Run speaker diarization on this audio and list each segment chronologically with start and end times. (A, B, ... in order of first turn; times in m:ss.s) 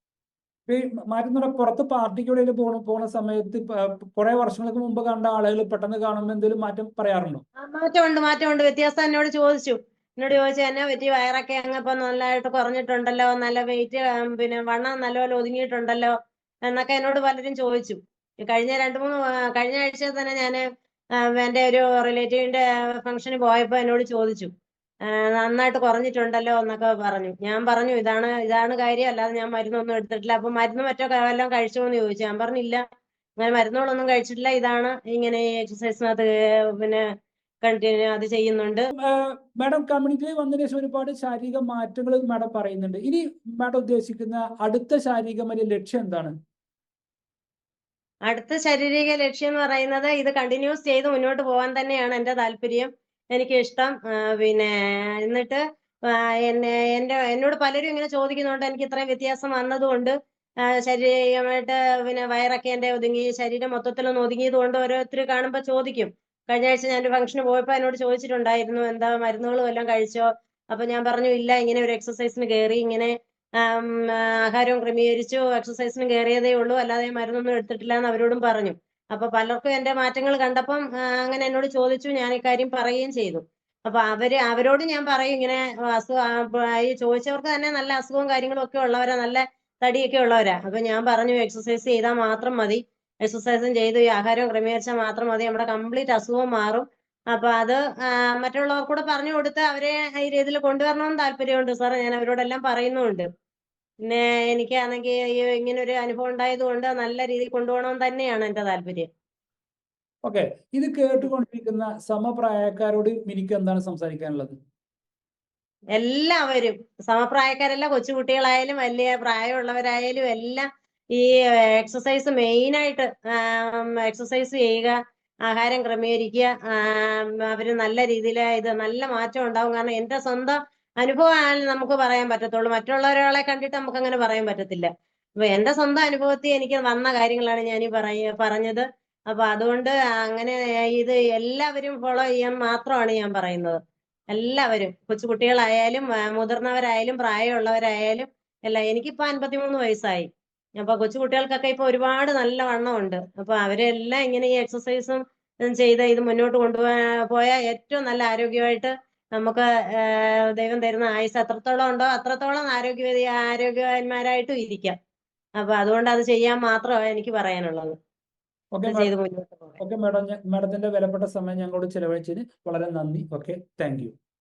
0:00.7-0:07.4 A
0:07.6-0:16.2 B
0:16.7-0:20.6 B
0:21.2-0:24.5 B
0:25.1-0:32.8 B
0:33.4-0:37.0 B
0:37.6-0:38.9 B
0:39.0-0:46.3 A
0:48.3-1:43.3 B
1:44.0-1:49.1 B
1:50.2-1:54.6 A
1:56.0-2:05.0 B
2:05.5-2:14.9 B
2:15.4-2:23.8 B
2:24.3-2:44.9 B
2:45.6-2:48.0 B
2:48.7-2:49.1 A
2:48.9-2:49.8 B
2:49.8-2:54.2 A